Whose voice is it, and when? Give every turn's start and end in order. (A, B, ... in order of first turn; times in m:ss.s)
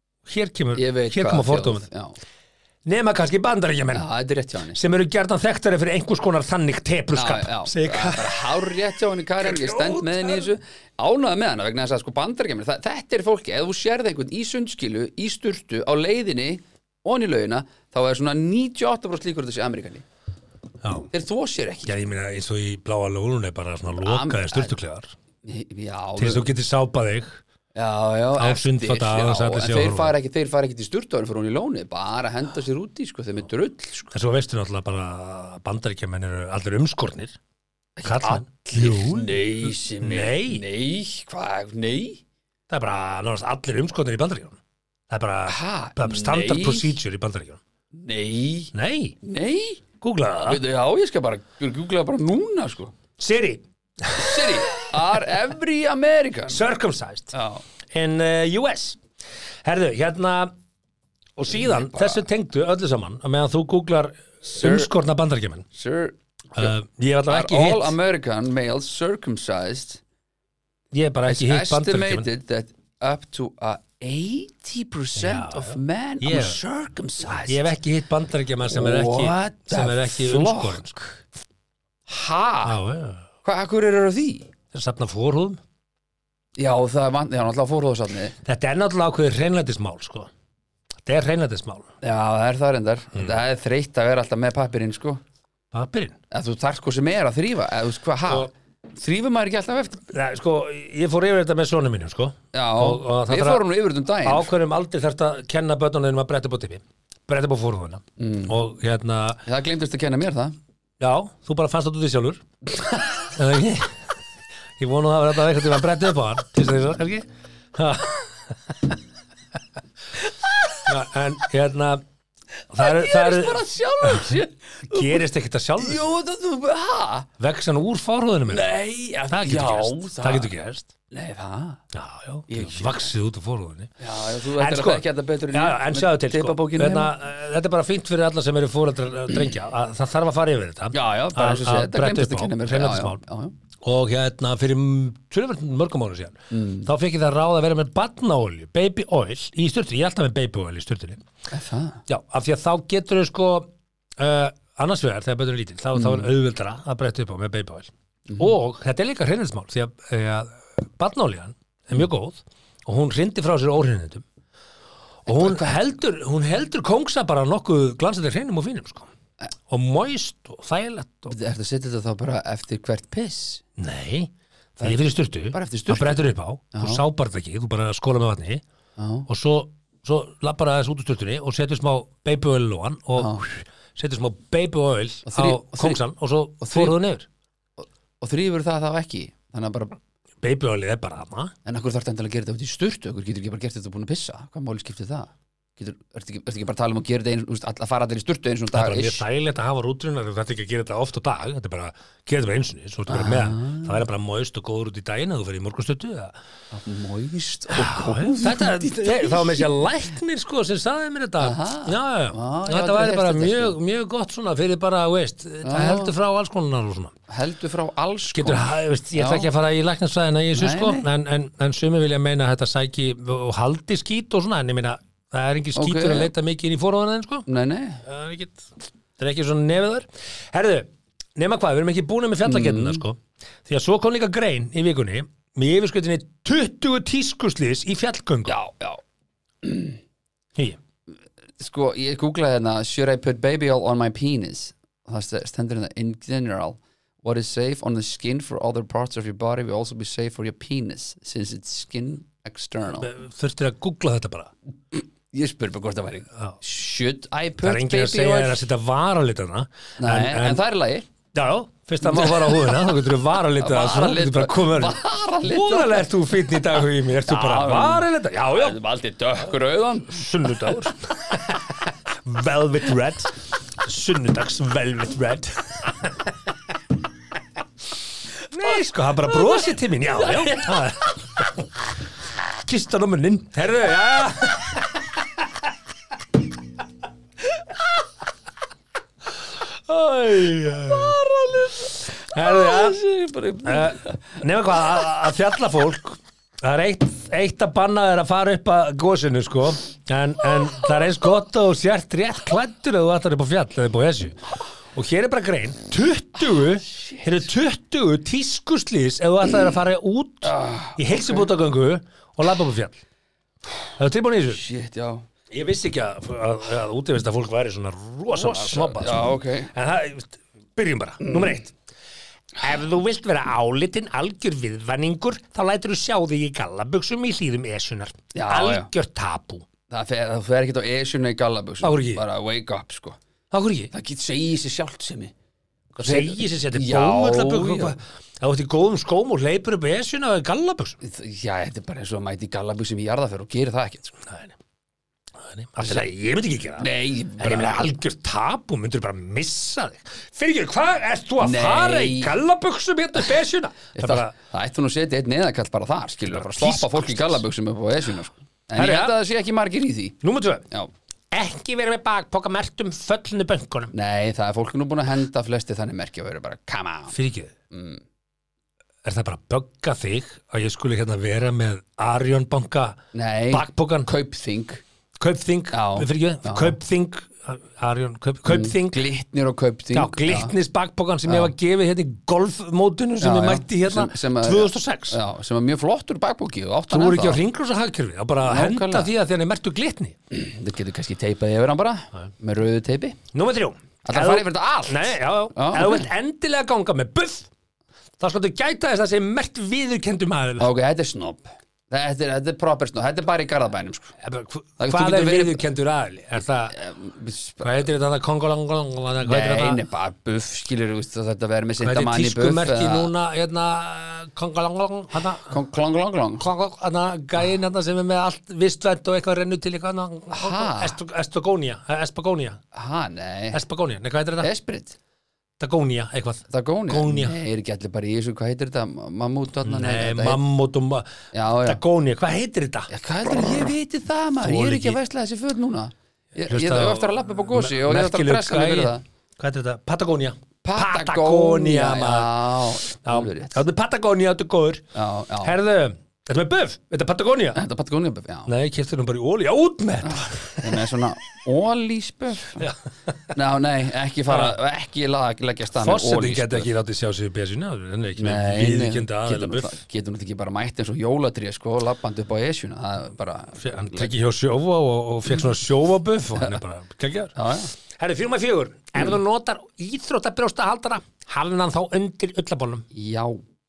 0:00.2-0:01.8 A
0:00.8-0:02.2 B
0:02.8-0:04.1 A
0:03.9-0:04.8 B
0:04.7-0:08.7 A
0:07.1-0:20.0 B
0:09.4-0:10.5 A
0:20.8-0:21.1 A
0:21.1-0:22.0 B
0:21.8-0:25.1 A
0:23.9-0:24.8 B
0:25.4-0:26.5 B
0:26.2-0:27.4 A
0:27.7-0:34.1 B
0:28.4-0:30.2 A
0:34.1-0:37.4 A
0:38.0-0:42.2 B
0:38.0-0:40.6 A
0:42.7-0:47.6 A
0:45.4-0:47.0 B
0:47.9-0:49.8 B
0:48.7-0:49.2 A
0:50.0-0:50.6 A
0:50.4-0:52.9 B
0:53.2-0:54.9 A
0:54.2-0:56.6 B
0:56.5-0:59.0 A
0:57.3-0:57.6 B
0:59.6-1:00.5 A
1:01.4-1:05.6 A
1:01.5-1:02.2 B
1:04.5-1:04.9 B
1:05.7-1:06.7 B
1:06.6-1:08.0 A
1:07.3-1:10.0 B
1:10.9-1:12.3 A
1:11.3-1:17.7 B
1:15.2-1:16.6 A
1:17.3-1:20.9 A
1:18.7-1:21.2 B
1:22.1-1:22.8 B
1:22.6-1:23.2 A
1:23.4-1:24.5 B
1:24.7-1:25.6 A
1:26.6-1:28.4 B
1:28.4-1:30.3 A
1:31.0-1:31.9 A
1:32.0-1:35.2 B
1:35.7-1:36.2 A
1:36.3-1:40.1 B
1:40.1-1:43.6 A
1:42.5-1:44.5 B
1:44.2-1:49.4 A
1:48.2-1:48.5 B
1:49.4-1:50.6 B
1:51.0-1:52.4 A
1:53.1-1:54.1 A
1:54.8-1:59.0 A
2:00.2-2:00.9 B
2:00.8-2:02.0 A
2:02.7-2:06.1 A
2:02.8-2:05.2 B
2:05.8-2:07.3 B
2:07.4-2:08.7 A
2:08.5-2:10.5 B
2:09.3-2:10.9 A
2:11.1-2:11.8 B
2:11.9-2:23.2 A
2:12.5-2:13.1 B
2:14.0-2:17.1 B
2:20.9-2:23.5 B
2:23.8-2:31.2 A
2:26.5-2:26.9 B
2:31.5-2:32.0 B
2:32.1-2:44.2 A
2:35.9-2:36.3 B
2:38.3-2:38.5 B
2:45.2-2:49.1 A
2:45.3-2:45.8 B
2:49.7-2:51.4 A
2:51.3-2:53.6 B
2:53.8-2:58.6 A
2:54.8-2:56.2 B
2:56.7-2:57.0 B
2:59.0-2:59.3 B
2:59.3-3:07.3 A
3:03.2-3:03.4 B
3:05.3-3:06.0 B
3:06.6-3:07.0 B
3:07.8-3:10.0 B
3:10.4-3:11.5 A
3:11.6-3:19.2 B
3:18.7-3:26.4 A
3:23.1-3:24.0 B
3:26.7-3:29.7 B
3:27.7-3:37.1 A
3:31.4-3:33.8 B
3:35.6-3:36.1 B
3:37.3-3:39.5 B
3:38.3-3:47.5 A
3:40.5-3:41.1 B
3:45.7-3:46.3 B
3:47.5-3:48.0 B
3:48.0-3:58.6 A
3:52.4-3:53.0 B
3:58.4-3:59.0 B
3:59.6-4:00.0 B
4:01.6-4:13.1 B
4:12.9-4:14.5 A
4:14.9-4:18.6 B
4:17.6-4:20.6 A
4:20.0-4:21.1 B
4:21.3-4:28.8 A
4:22.0-4:23.0 B
4:23.6-4:31.4 B
4:30.1-4:36.3 A
4:38.4-4:41.9 A
4:38.6-4:40.8 B
4:42.5-4:45.5 A
4:49.9-4:51.2 A
4:50.4-4:54.4 B
4:52.1-4:53.0 A
4:53.6-5:13.0 A
5:06.8-5:07.5 B
5:10.4-5:11.5 B
5:14.0-5:14.6 A
5:14.5-5:15.2 B
5:15.5-5:21.7 A
5:18.3-5:19.7 B
5:21.2-5:21.6 B
5:22.6-5:29.6 A
5:28.3-5:28.9 B
5:29.9-5:33.2 B
5:31.8-5:32.2 A
5:33.5-5:33.9 A
5:33.9-5:35.3 B
5:35.9-5:41.0 A
5:36.0-5:38.0 B
5:41.0-5:44.2 B
5:44.2-5:44.6 A
5:45.4-5:54.3 A
5:45.8-5:46.1 B
5:46.8-5:47.9 B
5:51.4-5:52.4 B
5:53.9-6:00.9 B
5:56.3-5:57.4 A
5:58.8-5:59.2 A
6:00.2-6:00.6 A
6:01.3-6:03.9 A
6:03.9-6:07.1 B
6:07.1-6:07.5 A
6:07.7-6:08.0 B
6:09.0-6:13.0 A
6:13.1-6:14.8 B
6:13.5-6:14.1 A
6:15.2-6:19.0 A
6:15.7-6:16.8 B
6:18.4-6:20.5 B
6:19.9-6:25.2 A
6:21.3-6:21.5 B
6:23.2-6:27.4 B
6:26.9-6:30.2 A
6:28.4-6:29.1 B
6:30.3-6:33.2 B
6:33.3-6:37.5 A
6:34.0-6:36.1 B
6:38.2-6:40.7 A
6:40.6-6:44.2 B
6:44.2-6:46.8 A
6:44.8-6:45.6 B
6:46.7-6:47.9 B
6:47.6-6:49.8 A
6:49.2-6:53.1 B
6:51.8-6:55.5 A
6:55.5-6:56.5 B
6:56.4-7:02.6 A
7:00.3-7:01.0 B
7:02.7-7:03.6 B
7:03.5-7:04.5 A
7:04.4-7:05.0 B
7:05.6-7:07.4 A
7:06.5-7:10.4 B
7:09.6-7:13.7 A
7:11.3-7:11.8 B
7:12.9-7:19.0 B
7:14.4-7:15.0 A
7:16.4-7:24.8 A
7:20.6-7:23.6 B
7:24.9-7:25.6 B
7:25.4-7:27.6 A
7:27.5-7:28.5 B
7:28.4-7:31.0 A
7:30.0-7:32.6 B
7:32.6-7:33.3 A
7:33.3-7:36.7 B
7:34.3-7:34.6 A
7:35.8-7:39.8 A
7:38.2-7:44.1 B
7:43.5-7:52.9 A
7:46.3-7:46.6 B
7:47.3-7:47.7 B
7:52.9-7:53.4 B